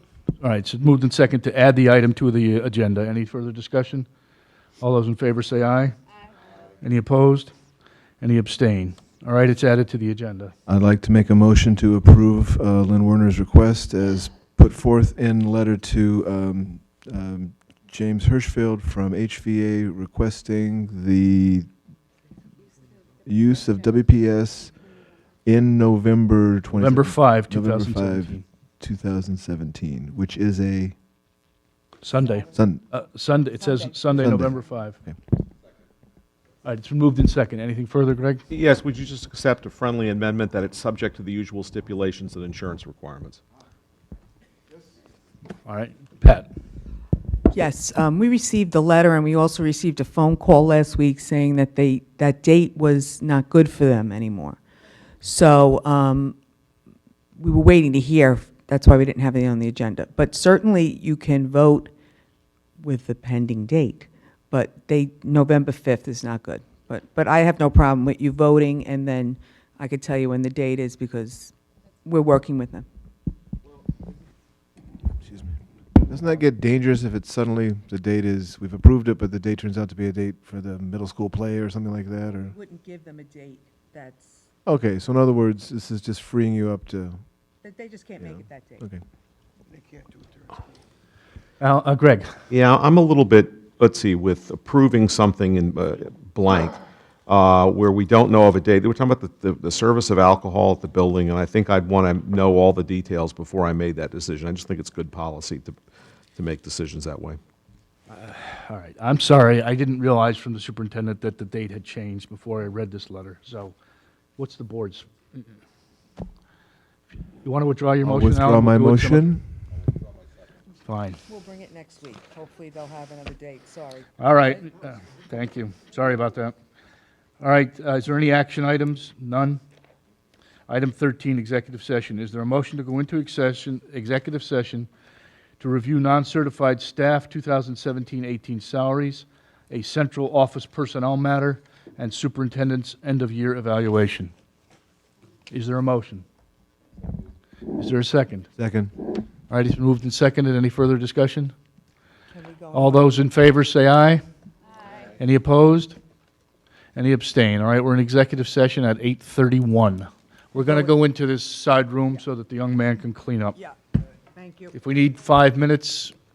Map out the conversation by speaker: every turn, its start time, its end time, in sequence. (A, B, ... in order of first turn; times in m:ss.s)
0:00.4-0:04.1 A
0:04.8-0:06.0 A
0:06.8-0:07.5 A
0:08.2-0:10.5 A
0:10.7-0:21.7 B
0:23.2-0:24.8 B
0:25.4-0:31.0 B
0:26.8-0:28.4 A
0:32.0-0:35.0 A
0:32.5-0:32.8 B
0:34.2-0:35.2 B
0:36.6-0:38.4 A
0:38.5-0:43.4 C
0:45.6-0:46.5 A
0:47.5-0:54.6 D
0:55.2-0:56.4 D
0:57.4-1:01.9 D
1:02.8-1:11.5 D
1:12.0-1:12.8 D
1:15.2-1:22.5 B
1:22.5-1:24.5 D
1:24.7-1:27.2 B
1:27.6-1:28.8 D
1:28.2-1:29.0 B
1:31.6-1:32.3 A
1:32.5-1:45.8 C
1:46.4-1:47.4 C
1:48.1-1:53.8 A
1:54.4-1:55.1 A
1:57.4-1:59.3 A
1:58.0-1:59.4 B
2:00.8-2:01.2 A
2:01.3-2:04.1 D
2:04.2-2:06.6 A
2:07.4-2:09.6 A
2:10.7-2:14.9 A
2:15.6-2:24.3 A
2:25.5-2:26.2 A
2:27.8-2:28.5 A
2:28.6-2:28.9 B
2:29.5-2:31.5 A
2:32.3-2:33.1 D
2:32.7-2:34.2 A
2:35.2-2:36.0 A
2:36.9-2:43.6 A
2:44.3-2:44.7 D
2:44.7-2:46.2 A